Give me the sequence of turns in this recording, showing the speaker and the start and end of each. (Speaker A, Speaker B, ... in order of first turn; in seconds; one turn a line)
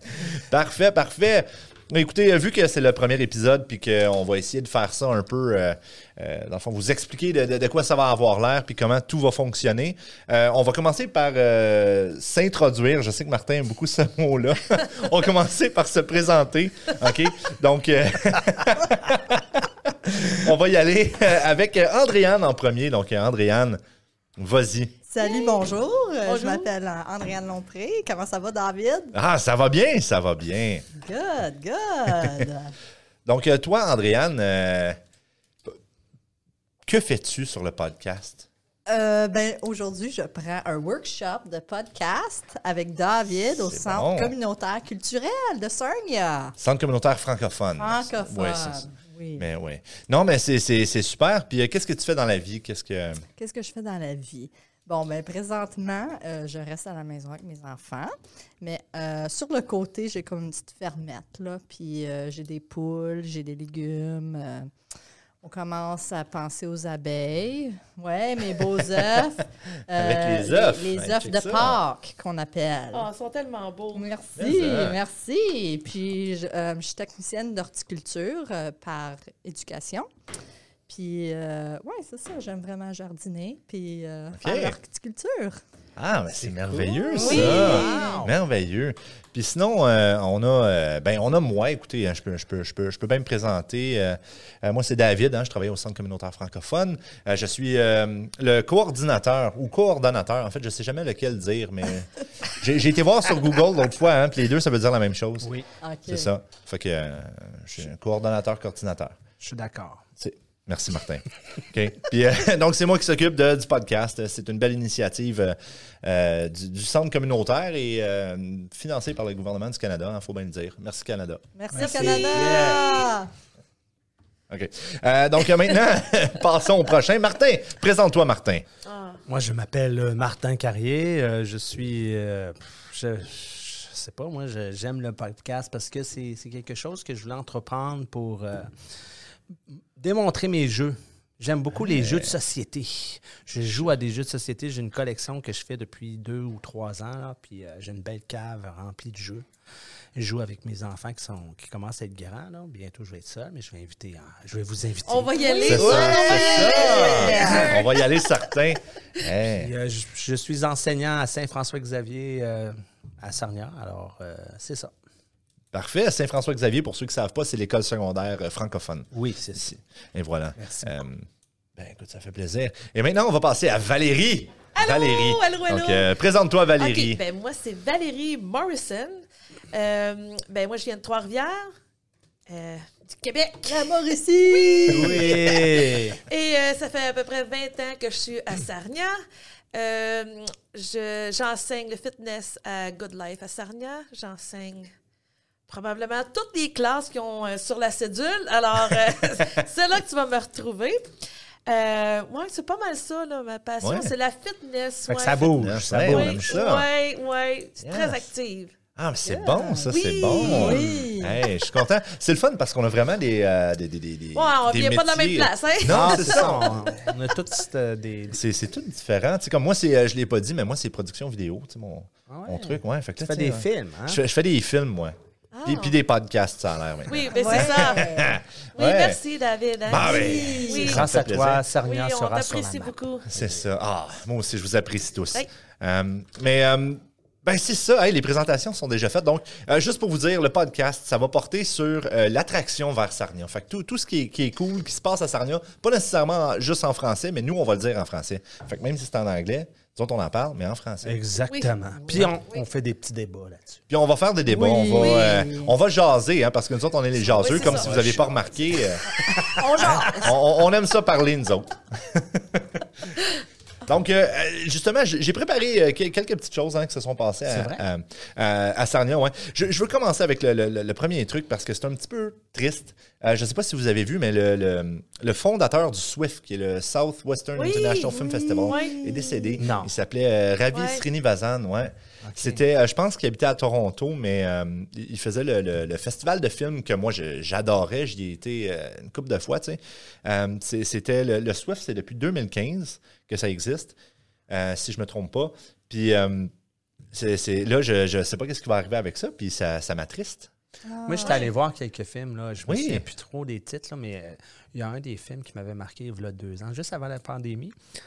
Speaker A: 0.3-23.8
Speaker A: 24.4-24.9
Speaker B: 25.1-29.1
Speaker C: 25.2-25.7
Speaker C: 26.2-26.7
Speaker A: 29.1-30.9
Speaker B: 31.0-32.7
Speaker A: 32.1-32.4
Speaker A: 33.3-35.0
Speaker A: 36.9-38.5
Speaker B: 38.9-46.6
Speaker A: 43.6-44.4
Speaker A: 46.6-48.9
Speaker B: 47.8-49.5
Speaker A: 49.4-53.3
Speaker B: 53.4-64.7
Speaker B: 65.4-73.1
Speaker A: 69.9-71.8
Speaker C: 72.9-74.1
Speaker B: 73.9-80.1
Speaker A: 74.4-75.0
Speaker B: 80.9-85.6
Speaker A: 84.4-84.8
Speaker A: 86.0-105.5
Speaker D: 86.4-88.3
Speaker B: 87.1-88.2
Speaker C: 87.2-88.2
Speaker D: 105.4-105.7
Speaker B: 105.8-106.3
Speaker A: 106.1-109.2
Speaker D: 109.4-110.1
Speaker A: 110.2-122.2
Speaker B: 121.5-123.3
Speaker D: 121.7-123.0
Speaker C: 121.8-123.2
Speaker A: 124.5-128.7
Speaker C: 128.9-129.2
Speaker D: 129.3-138.8
Speaker D: 139.7-149.5
Speaker A: 141.8-142.4
Speaker D: 150.2-157.6
Speaker C: 155.1-158.1
Speaker B: 155.6-157.8
Speaker A: 155.7-159.7
Speaker D: 159.5-164.9
Speaker A: 165.7-177.2
Speaker D: 169.1-169.7
Speaker D: 170.6-171.1
Speaker C: 174.8-176.1
Speaker C: 176.8-181.7
Speaker C: 182.5-185.6
Speaker B: 183.7-185.6
Speaker D: 184.9-186.2
Speaker C: 186.3-189.2
Speaker C: 189.7-194.9
Speaker C: 195.7-201.1
Speaker C: 201.7-208.7
Speaker A: 203.8-204.1
Speaker D: 205.1-206.6
Speaker A: 205.6-206.9
Speaker A: 207.8-208.3
Speaker A: 209.0-216.9
Speaker B: 209.3-211.4
Speaker C: 209.9-210.9
Speaker D: 210.6-211.0
Speaker C: 214.3-216.7
Speaker D: 215.9-218.4
Speaker A: 218.3-229.2
Speaker D: 222.3-224.2
Speaker C: 225.5-226.0
Speaker C: 227.1-231.1
Speaker B: 227.3-228.4
Speaker A: 229.9-231.6
Speaker B: 229.9-231.0
Speaker D: 230.8-233.6
Speaker C: 231.8-233.3
Speaker A: 233.3-251.2
Speaker D: 251.0-253.8
Speaker A: 253.9-262.8
Speaker B: 254.5-255.7
Speaker C: 254.9-255.4
Speaker C: 257.2-258.1
Speaker D: 257.5-258.5
Speaker B: 259.3-260.4
Speaker A: 263.9-293.9
Speaker D: 267.5-267.9
Speaker C: 277.6-279.0
Speaker B: 278.1-279.6
Speaker D: 279.6-279.9
Speaker C: 280.7-281.0
Speaker D: 282.2-282.6
Speaker A: 294.5-296.5
Speaker A: 297.1-300.5
Speaker B: 300.9-301.4
Speaker D: 301.1-307.8
Speaker C: 301.2-301.5
Speaker A: 302.7-303.0